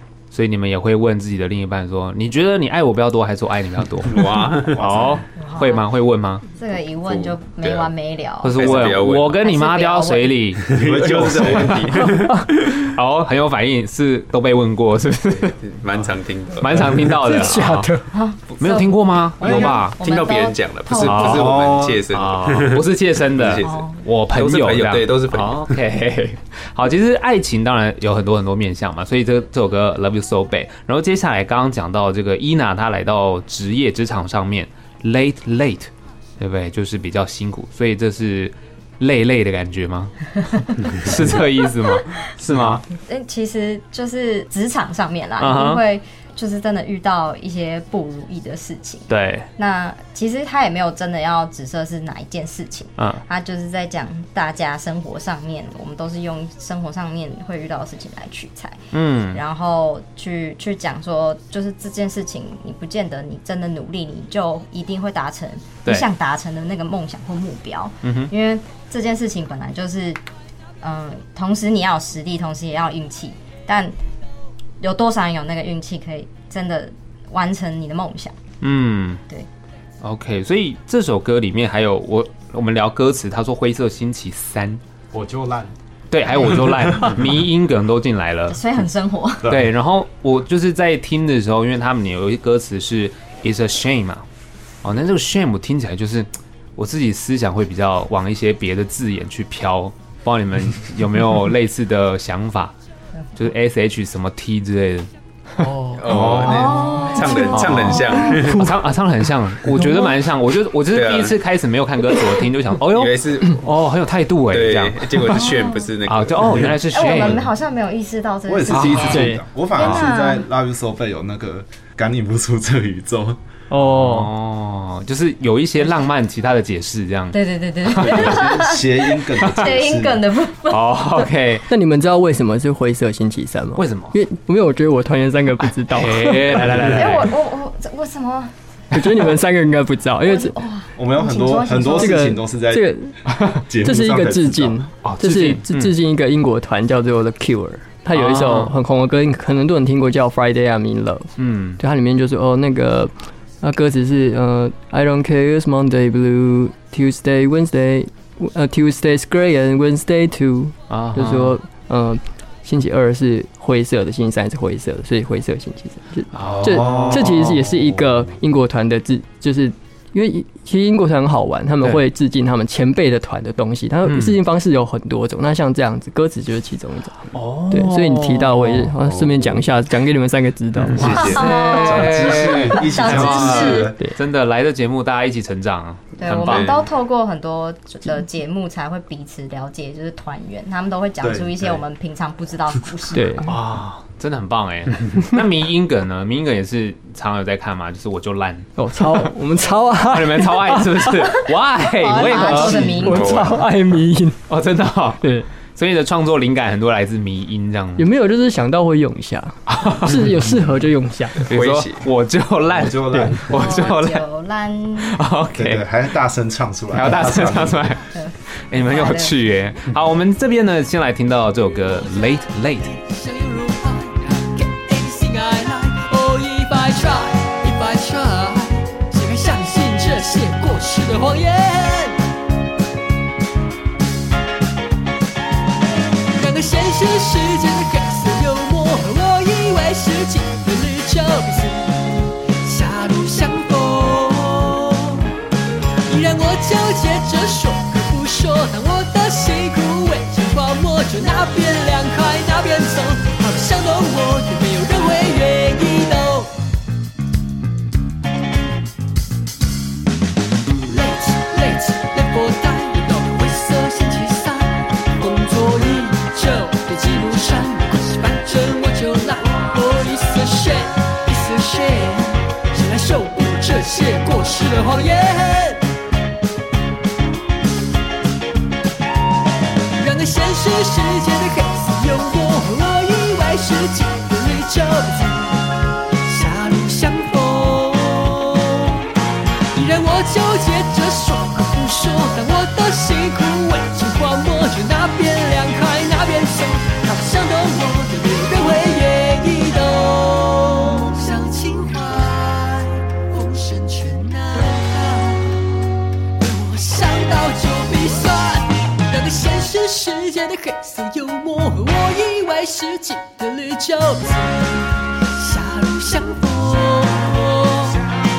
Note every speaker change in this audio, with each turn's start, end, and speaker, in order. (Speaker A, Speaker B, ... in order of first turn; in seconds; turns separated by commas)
Speaker A: 0.3-6.4, Speaker B: 4.0-5.1, Speaker C: 4.7-5.2, Speaker D: 5.4-5.9, Speaker D: 6.5-10.4, Speaker B: 7.0-7.9, Speaker A: 8.4-12.1, Speaker B: 8.6-9.4, Speaker B: 10.6-12.9, Speaker C: 10.7-11.9, Speaker E: 12.1-12.5, Speaker A: 12.7-15.6, Speaker B: 15.3-17.1, Speaker A: 16.6-17.9, Speaker E: 17.2-18.1, Speaker D: 18.1-21.5, Speaker A: 18.6-20.0, Speaker B: 19.4-25.8, Speaker A: 21.0-21.5, Speaker C: 21.2-22.0, Speaker A: 22.1-40.3, Speaker D: 23.6-24.0, Speaker A: 40.8-42.8, Speaker D: 41.9-42.2, Speaker D: 43.0-58.8, Speaker A: 45.4-45.8, Speaker A: 49.1-49.5, Speaker A: 58.9-59.4, Speaker D: 59.3-70.2, Speaker A: 68.0-68.3, Speaker D: 70.8-74.0, Speaker D: 74.8-78.3, Speaker A: 78.6-79.2, Speaker A: 80.0-84.8, Speaker C: 85.1-85.7, Speaker A: 86.1-88.6, Speaker D: 86.2-87.1, Speaker D: 88.5-89.5, Speaker C: 89.4-89.7, Speaker A: 89.5-94.2, Speaker A: 94.8-102.8, Speaker A: 103.4-105.1, Speaker E: 105.6-107.4, Speaker A: 105.6-106.8, Speaker B: 106.0-108.7, Speaker D: 106.4-108.5, Speaker A: 107.4-115.5, Speaker B: 110.9-111.4, Speaker B: 112.9-113.7, Speaker B: 114.5-116.8, Speaker D: 115.3-115.9, Speaker A: 116.1-117.5, Speaker D: 116.8-120.5, Speaker C: 118.5-123.4, Speaker A: 118.7-119.2, Speaker E: 119.1-119.4, Speaker A: 119.8-120.0, Speaker E: 123.7-124.3, Speaker A: 123.8-128.5, Speaker D: 127.3-131.3, Speaker C: 128.0-130.3, Speaker A: 130.7-131.7, Speaker E: 131.7-136.8, Speaker A: 133.8-134.2, Speaker A: 135.9-137.4, Speaker D: 136.8-138.5, Speaker E: 138.9-140.6, Speaker D: 140.2-142.3, Speaker C: 141.0-144.8, Speaker E: 141.9-143.2, Speaker E: 143.8-181.3, Speaker A: 145.0-145.9, Speaker A: 148.1-148.8, Speaker A: 151.4-151.8, Speaker A: 160.9-161.6, Speaker A: 166.3-167.7, Speaker C: 166.5-167.3, Speaker A: 174.1-174.4, Speaker A: 177.3-179.3, Speaker C: 180.9-184.0, Speaker A: 180.9-186.8, Speaker D: 181.0-183.9, Speaker D: 186.2-193.5, Speaker B: 186.3-186.8, Speaker C: 191.2-191.8, Speaker E: 193.1-193.5, Speaker A: 193.4-199.3, Speaker E: 198.8-201.4, Speaker A: 200.1-203.0, Speaker D: 201.9-203.4, Speaker E: 202.2-204.4, Speaker B: 203.0-203.6, Speaker A: 204.5-208.1, Speaker E: 205.2-205.5, Speaker E: 208.0-211.5, Speaker A: 209.7-210.4, Speaker B: 211.4-212.1, Speaker A: 211.4-214.3, Speaker C: 212.7-213.9, Speaker D: 213.5-215.2, Speaker A: 215.0-215.9, Speaker C: 215.6-217.9, Speaker A: 216.9-223.0, Speaker D: 218.1-219.4, Speaker F: 222.2-232.2, Speaker F: 236.3-245.3, Speaker F: 246.1-256.5, Speaker F: 260.9-275.9, Speaker F: 279.9-289.0, Speaker F: 289.7-305.8, Speaker F: 306.4-318.0